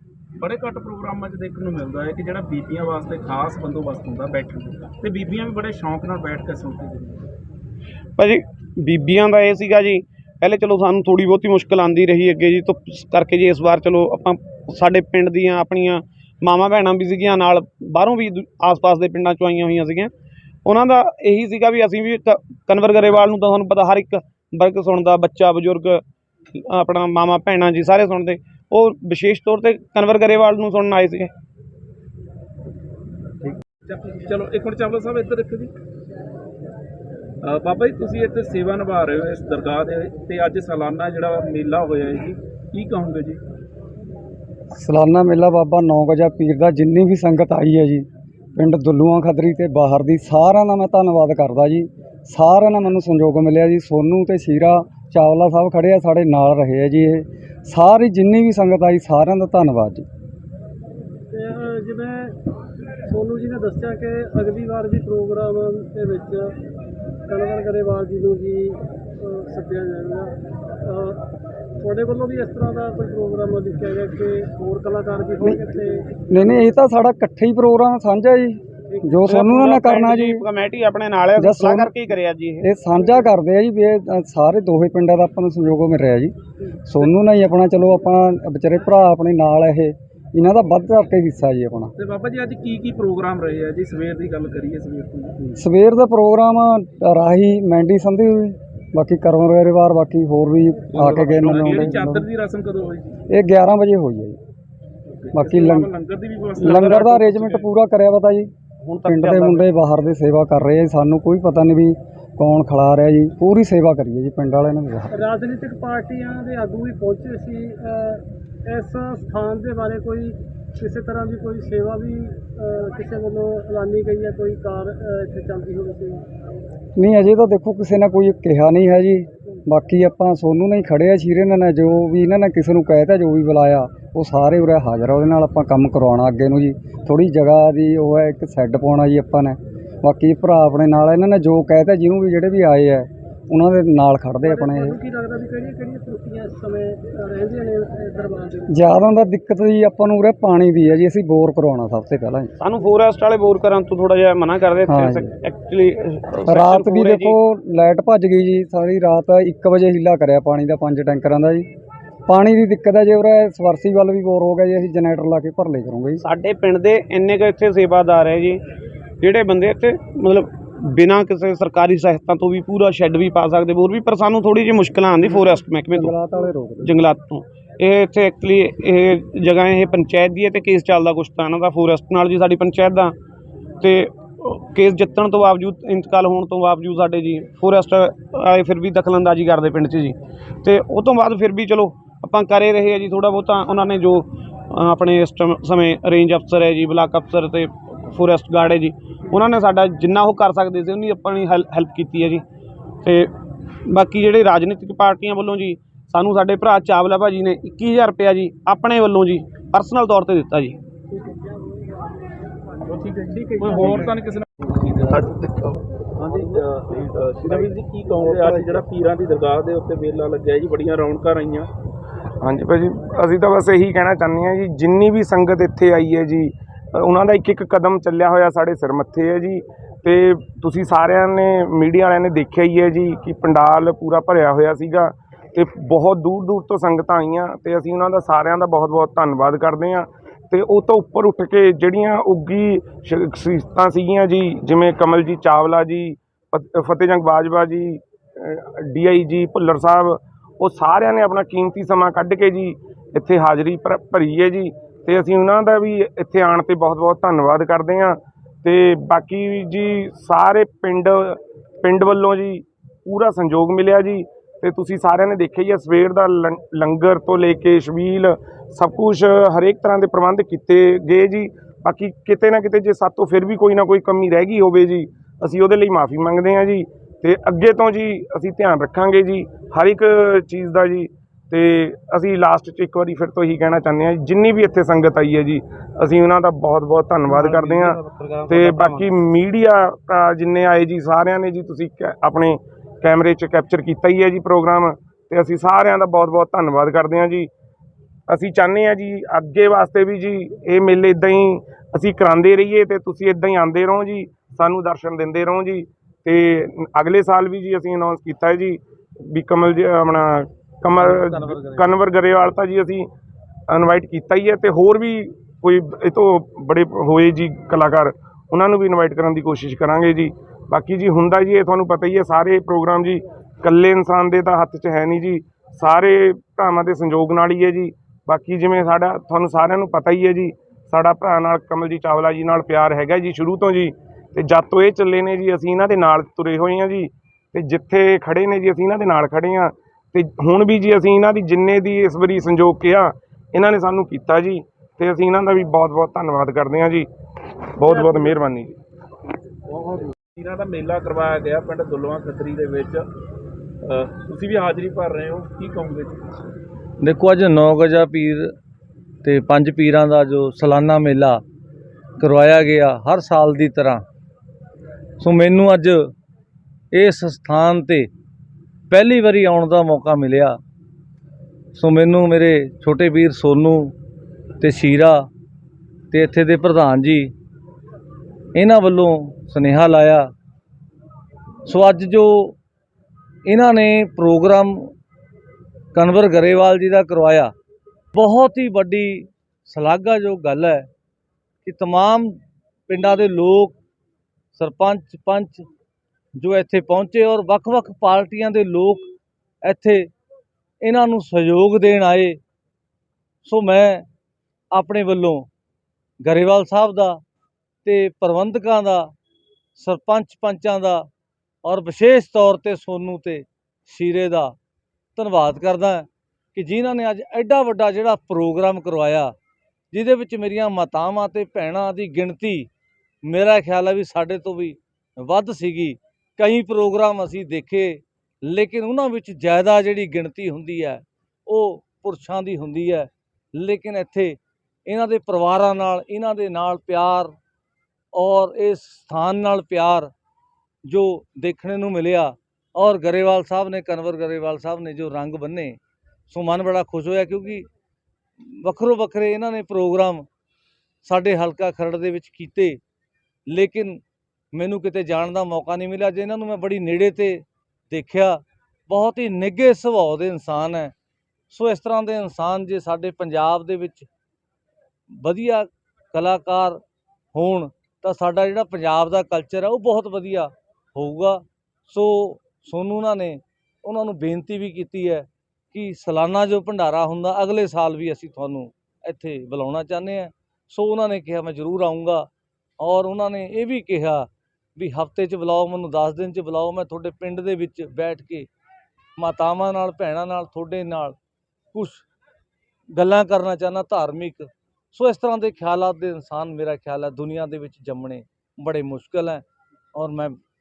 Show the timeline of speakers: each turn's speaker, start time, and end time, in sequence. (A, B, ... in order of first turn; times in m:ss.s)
0:00.4-0:07.3 A
0:08.2-0:20.1 B
0:20.6-0:31.3 B
0:33.4-0:35.7 A
0:37.4-0:43.4 A
0:44.8-1:00.1 C
1:01.3-1:02.4 D
1:03.1-1:06.6 D
1:07.3-1:10.3 D
1:10.9-1:11.3 D
1:11.8-1:16.1 D
1:16.3-1:20.4 C
1:19.3-1:22.6 B
1:21.4-1:22.0 C
1:22.6-1:26.3 C
1:26.9-1:31.9 C
1:32.0-1:35.4 A
1:35.4-1:42.2 C
1:40.9-1:43.1 A
1:41.1-1:41.4 B
1:43.3-1:44.4 C
1:45.2-1:47.5 A
1:45.3-1:45.9 C
1:46.6-1:48.5 C
1:46.6-1:47.6 B
1:48.8-1:49.7 B
1:49.0-1:55.2 C
1:55.1-2:06.2 D
2:07.0-2:25.0 C
2:24.4-2:28.8 D
2:28.7-2:32.6 C
2:32.6-2:37.4 B
2:34.9-2:35.3 C
2:36.5-2:41.7 C
2:42.3-2:46.2 C
2:46.2-2:48.6 B
2:49.2-2:56.2 B
2:55.9-2:57.0 C
2:56.8-3:03.2 B
3:03.8-3:22.4 B
3:23.0-3:23.3 B
3:23.9-3:30.8 B
3:32.9-3:35.4 A
3:36.2-3:41.7 A
3:42.4-4:57.5 E
4:58.3-5:08.8 E
5:09.3-5:13.1 E
5:13.7-5:47.1 E
5:47.8-5:48.8 E
5:47.9-5:48.4 D
5:49.7-5:53.1 A
5:53.8-5:56.2 A
5:57.0-5:58.5 F
5:59.2-6:01.4 F
6:02.2-6:04.0 F
6:05.2-6:06.1 F
6:06.9-6:08.1 F
6:08.9-6:10.6 F
6:11.8-6:13.9 F
6:14.6-6:15.3 F
6:16.1-6:17.3 F
6:18.6-6:20.3 F
6:21.7-6:22.6 F
6:23.5-6:24.9 F
6:25.9-6:27.5 F
6:28.1-6:30.9 F
6:31.6-6:33.8 F
6:34.6-6:35.6 F
6:36.4-6:39.1 F
6:39.6-6:40.1 F
6:40.8-6:42.4 F
6:43.4-6:44.1 F
6:44.7-6:45.5 F
6:46.2-6:47.2 F
6:47.8-6:49.1 F
6:49.8-6:51.1 F
6:51.6-6:54.5 F
6:55.2-6:59.3 F
6:59.9-7:02.7 F
7:03.2-7:17.3 F
7:18.1-7:20.1 F
7:20.9-7:25.8 F
7:26.3-7:27.7 F
7:28.4-7:30.3 F
7:31.0-7:32.8 F
7:33.5-7:34.0 F
7:34.5-7:40.9 F
7:41.5-7:44.1 F
7:45.1-7:46.8 F
7:47.3-8:02.3 F
8:02.8-8:08.5 F
8:09.2-8:11.2 F
8:11.7-8:12.0 F
8:12.9-8:19.4 F
8:20.0-8:20.4 F